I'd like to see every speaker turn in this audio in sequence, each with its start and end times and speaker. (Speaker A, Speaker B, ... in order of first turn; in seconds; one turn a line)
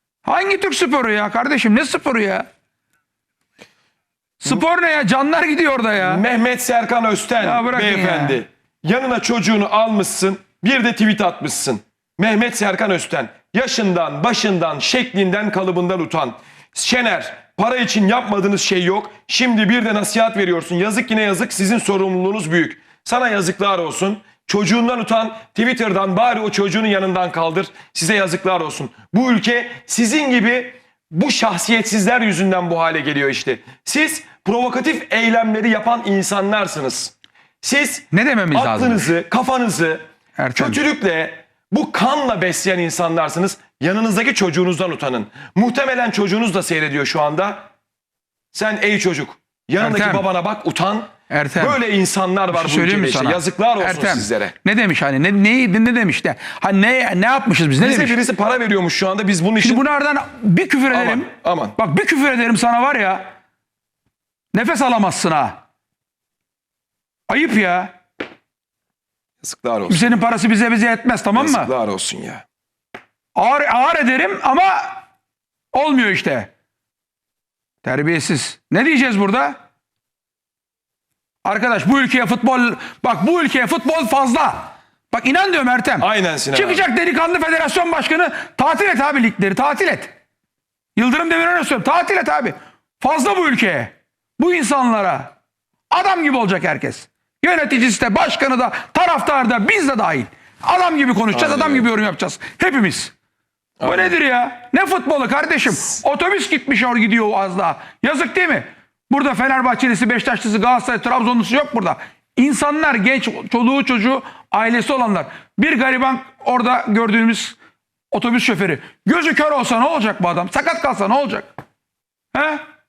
Speaker A: 0.2-2.5
Speaker A: 4.4-6.2
Speaker B: 6.0-40.0
Speaker A: 7.4-8.4
Speaker A: 38.1-39.1
Speaker A: 40.4-40.8
Speaker B: 40.5-47.6
Speaker B: 48.5-54.5
Speaker A: 49.8-50.2
Speaker A: 51.3-51.8
Speaker A: 52.5-58.2
Speaker B: 57.8-59.8
Speaker A: 59.6-63.3
Speaker B: 60.9-61.8
Speaker A: 64.5-65.6
Speaker A: 67.3-67.9
Speaker B: 69.4-70.1
Speaker A: 69.9-71.7
Speaker B: 71.3-72.4
Speaker A: 73.3-75.0
Speaker A: 75.7-76.5
Speaker A: 77.8-79.5
Speaker A: 81.4-90.1
Speaker B: 86.0-86.8
Speaker A: 91.0-95.3
Speaker A: 95.9-103.1
Speaker B: 101.3-101.9
Speaker B: 103.8-104.1
Speaker A: 103.8-117.6
Speaker A: 118.1-121.5
Speaker A: 122.3-122.6